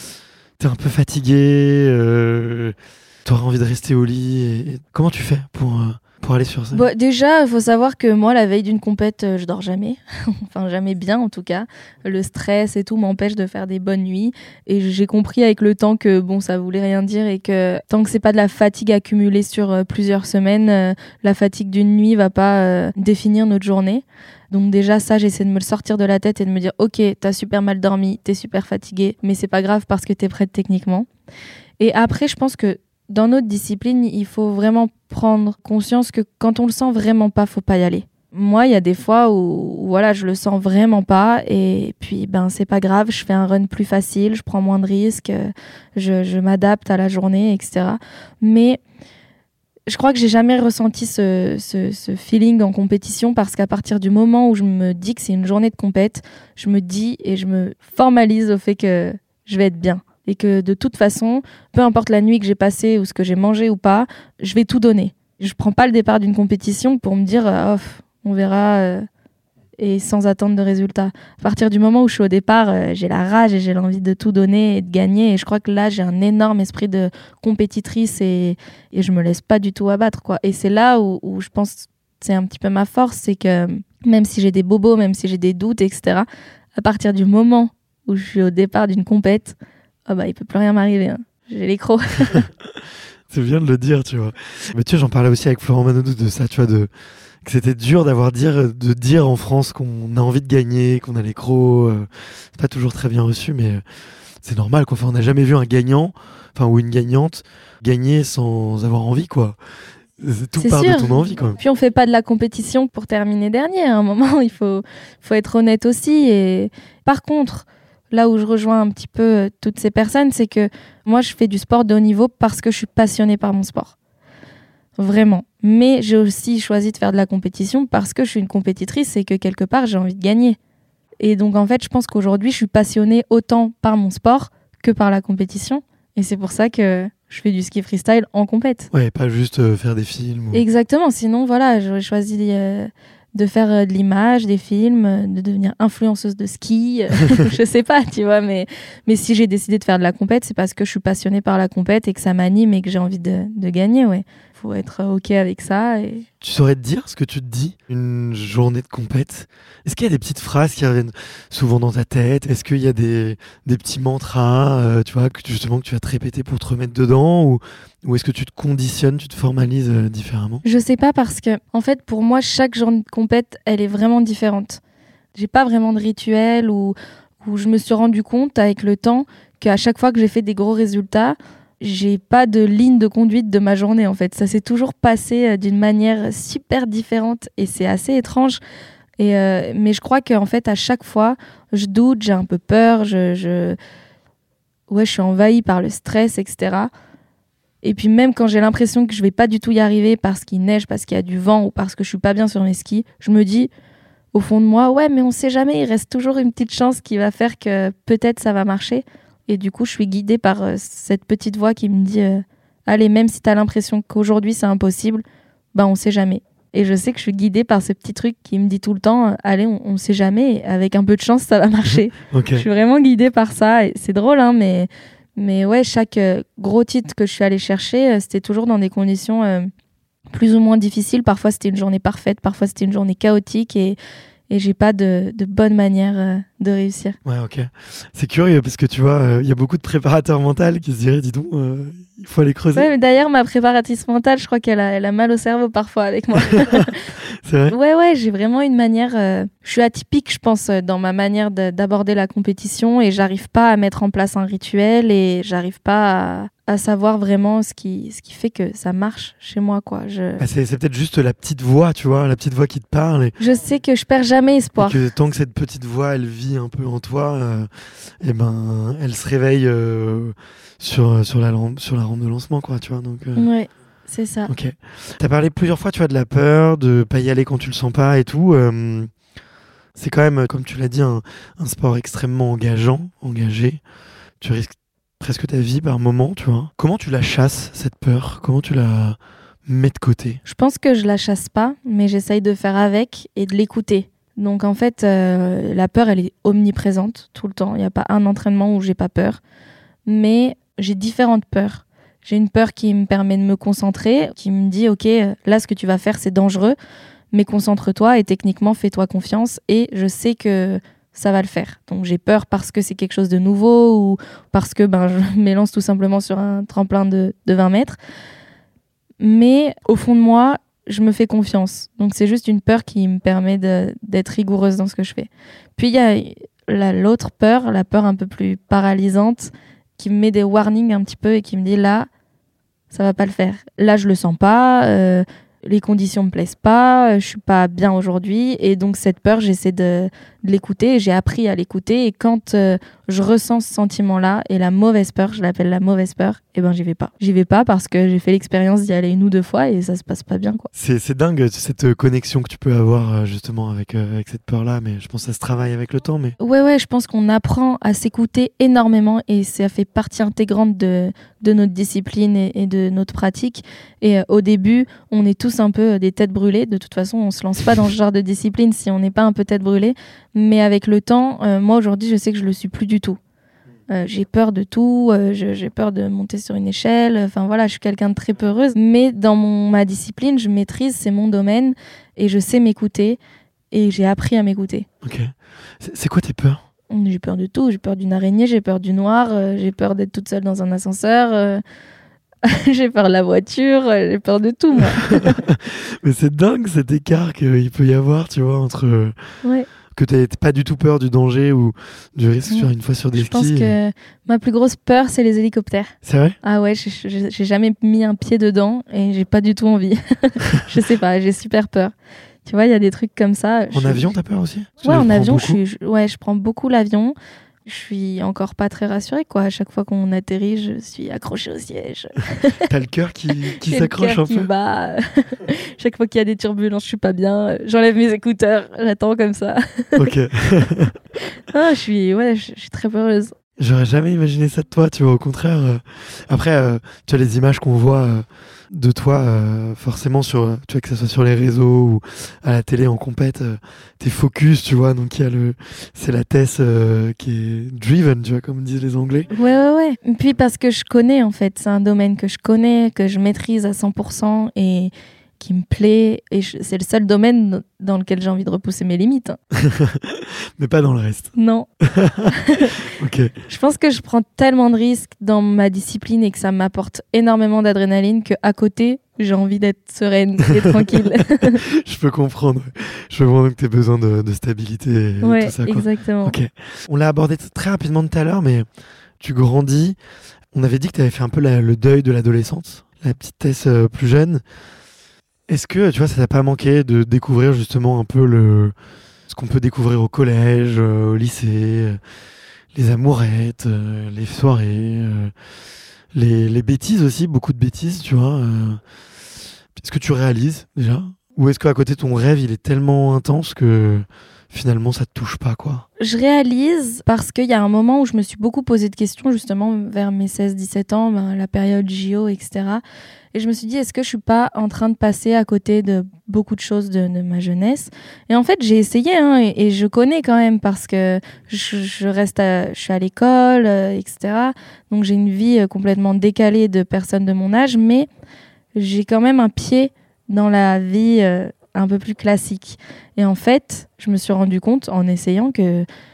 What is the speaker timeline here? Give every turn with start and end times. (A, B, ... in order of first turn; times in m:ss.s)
0:00.6-0:06.9 A
0:06.7-0:31.1 B
0:31.8-0:48.8 B
0:49.9-1:09.1 B
1:09.8-1:29.6 B
1:30.1-1:32.5 B
1:33.3-1:36.9 A
1:37.4-1:43.8 A
1:44.4-1:49.6 A
1:50.2-1:51.6 A
1:50.6-2:04.0 B
2:05.0-2:10.6 B
2:11.2-2:18.9 B
2:18.9-2:20.6 A
2:20.5-2:36.3 B
2:36.4-2:50.6 A
2:50.6-2:54.8 B
2:55.3-3:08.6 B
3:09.2-3:13.8 B
3:14.9-3:16.9 B
3:17.8-3:23.7 B
3:24.3-3:49.7 B
3:42.3-3:42.7 A
3:50.3-3:54.0 B
3:54.5-3:57.2 B
3:57.2-4:02.9 A
4:02.8-4:07.0 B
4:06.5-4:06.9 A
4:07.4-4:07.8 A
4:07.7-4:20.4 B
4:20.4-4:23.4 A
4:23.4-4:25.1 B
4:24.8-4:27.7 A
4:28.2-4:33.5 A
4:33.4-4:34.5 B
4:34.5-4:39.1 A
4:40.0-4:43.8 A
4:44.4-4:50.4 A
4:50.4-4:59.4 B
5:00.1-5:06.8 B
5:07.3-5:18.0 B
5:19.2-5:32.1 B
5:32.9-5:50.7 B
5:50.7-5:56.4 A
5:56.4-6:13.2 B
6:13.9-6:23.2 B
6:23.7-6:24.9 B
6:25.0-6:26.6 A
6:26.9-6:31.6 B
6:32.4-6:35.4 B
6:35.1-6:39.2 A
6:40.0-6:43.7 A
6:42.5-6:51.9 B
6:46.0-6:46.4 A
6:52.4-6:54.1 B
6:53.7-6:55.6 A
6:54.8-7:02.6 B
7:02.6-7:04.5 A
7:03.6-7:10.1 B
7:10.0-7:11.0 A
7:11.5-7:13.4 B
7:13.6-7:29.3 A
7:29.3-7:39.4 B
7:39.6-7:43.4 A
7:41.4-7:41.7 B
7:42.3-7:42.7 B
7:43.5-7:51.6 B
7:50.6-7:58.7 A
7:55.2-7:56.4 B
7:59.2-8:00.0 A
8:00.5-8:04.4 A
8:05.5-8:08.7 A
8:09.3-8:12.0 A
8:12.7-8:15.3 A
8:16.1-8:18.8 A
8:19.8-8:25.9 A
8:26.0-8:32.8 B
8:33.3-8:48.1 B
8:48.8-8:55.9 B